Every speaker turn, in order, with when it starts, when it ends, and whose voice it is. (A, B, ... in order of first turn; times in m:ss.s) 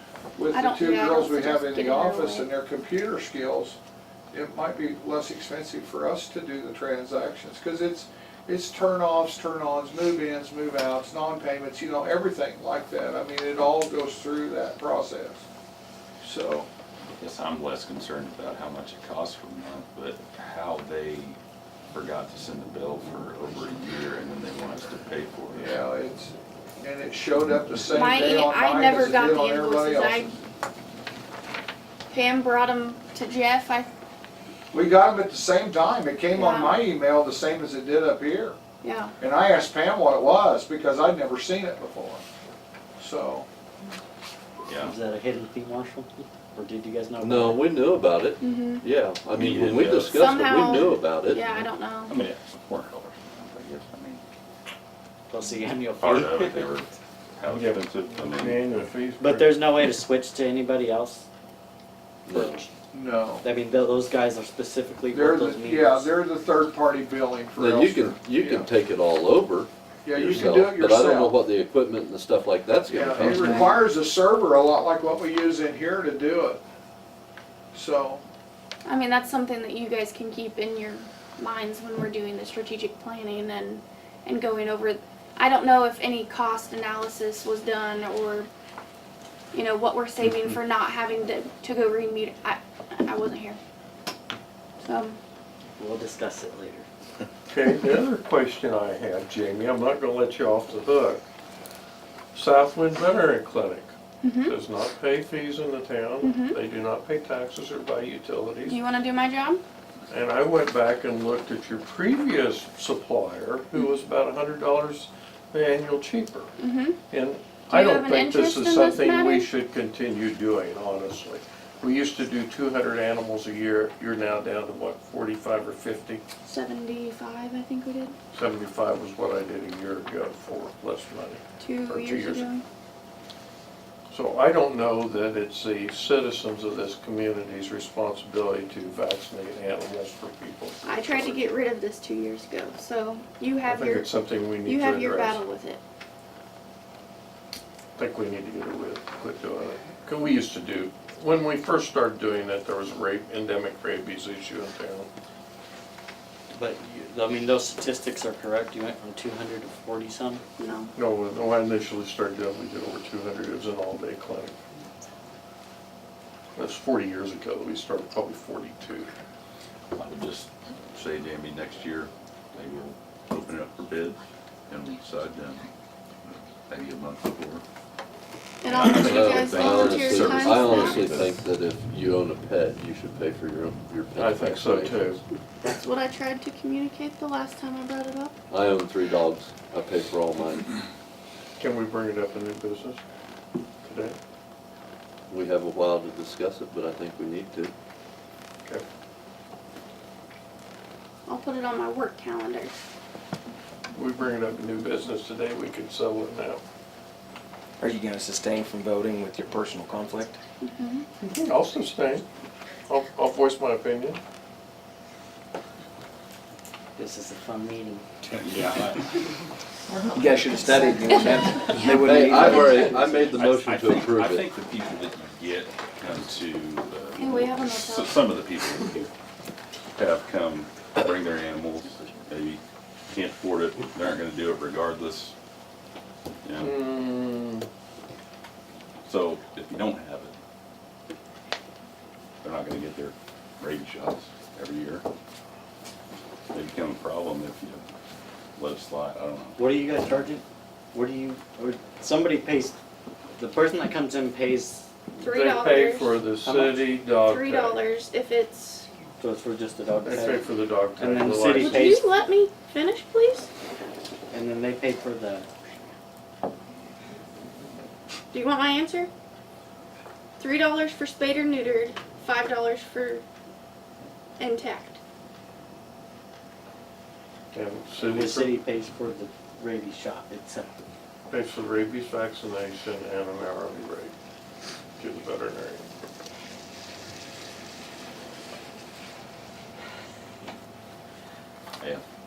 0:00.4-0:03.8 A
0:00.5-0:02.5 B
0:04.3-0:15.4 A
0:16.2-0:16.7 A
0:17.1-0:21.4 C
0:21.9-0:25.8 C
0:25.5-0:30.4 A
0:27.9-0:30.4 B
0:32.1-0:33.9 B
0:34.7-0:38.6 A
0:36.3-0:36.8 B
0:38.8-0:39.2 B
0:39.2-0:42.2 A
0:43.0-0:43.5 A
0:44.6-0:45.0 C
0:44.8-0:47.7 D
0:47.2-0:51.7 E
0:48.4-0:48.8 B
0:49.3-0:50.2 C
0:49.6-0:50.0 F
0:50.1-0:52.1 B
0:52.1-0:54.2 C
0:55.3-0:56.8 D
0:56.0-0:58.7 C
0:57.5-0:59.6 F
0:59.2-1:01.3 D
1:02.3-1:02.7 E
1:02.3-1:02.7 D
1:02.9-1:03.4 A
1:03.4-1:06.2 D
1:05.1-1:08.7 A
1:07.6-1:13.8 E
1:10.0-1:11.4 A
1:12.9-1:16.6 A
1:13.2-1:13.8 B
1:17.7-1:18.2 A
1:18.8-1:28.5 B
1:29.5-1:33.6 B
1:34.8-1:35.2 B
1:35.8-1:36.9 D
1:37.5-1:41.2 F
1:42.3-1:48.8 F
1:44.2-1:44.6 B
1:46.2-1:46.6 B
1:48.7-1:49.6 B
1:50.1-1:56.5 F
1:56.6-1:57.0 B
1:57.1-2:06.2 F
1:57.7-1:59.5 B
2:06.4-2:08.1 B
2:08.3-2:12.5 F
2:11.6-2:12.6 B
2:14.1-2:21.5 F
2:20.8-2:25.8 B
2:23.7-2:25.4 F
2:28.0-2:35.1 F
2:36.5-2:40.4 D
2:40.6-2:40.9 B
2:41.0-2:44.6 F
2:46.6-2:49.1 F
2:49.9-2:55.7 C
2:56.2-2:57.6 C
2:58.6-3:01.2 B
2:58.6-3:01.4 C
2:59.0-3:05.2 E
3:04.2-3:05.2 F
3:05.6-3:08.4 B
3:08.5-3:10.7 E
3:11.6-3:13.0 F
3:13.8-3:14.2 F
3:15.3-3:17.7 E
3:21.3-3:22.7 B
3:23.9-3:26.6 F
3:27.8-3:30.4 G
3:30.6-3:31.1 B
3:31.3-3:32.2 F
3:32.9-3:34.2 F
3:37.0-3:38.8 D
3:38.4-3:39.1 C
3:40.1-3:42.9 G
3:40.7-3:41.5 B
3:41.9-3:44.4 E
3:42.7-3:43.8 D
3:43.4-3:49.1 C
3:47.2-3:48.2 B
3:50.0-3:55.4 C
3:56.4-3:56.8 C
3:56.6-3:57.7 F
3:59.1-4:00.4 C
4:02.4-4:05.0 C
4:06.5-4:07.9 C
4:08.6-4:09.6 C
4:09.6-4:12.8 D
4:13.4-4:14.9 D
4:15.1-4:17.8 F
4:15.2-4:16.2 B
4:16.4-4:17.0 D
4:17.2-4:18.9 B
4:19.2-4:22.1 D
4:20.0-4:22.0 F
4:21.6-4:23.5 B
4:24.3-4:25.5 D
4:28.3-4:29.1 B
4:30.4-4:33.2 B
4:34.4-4:35.0 B
4:37.5-4:38.6 F
4:38.0-4:40.9 D
4:41.3-4:44.1 F
4:45.0-4:45.9 F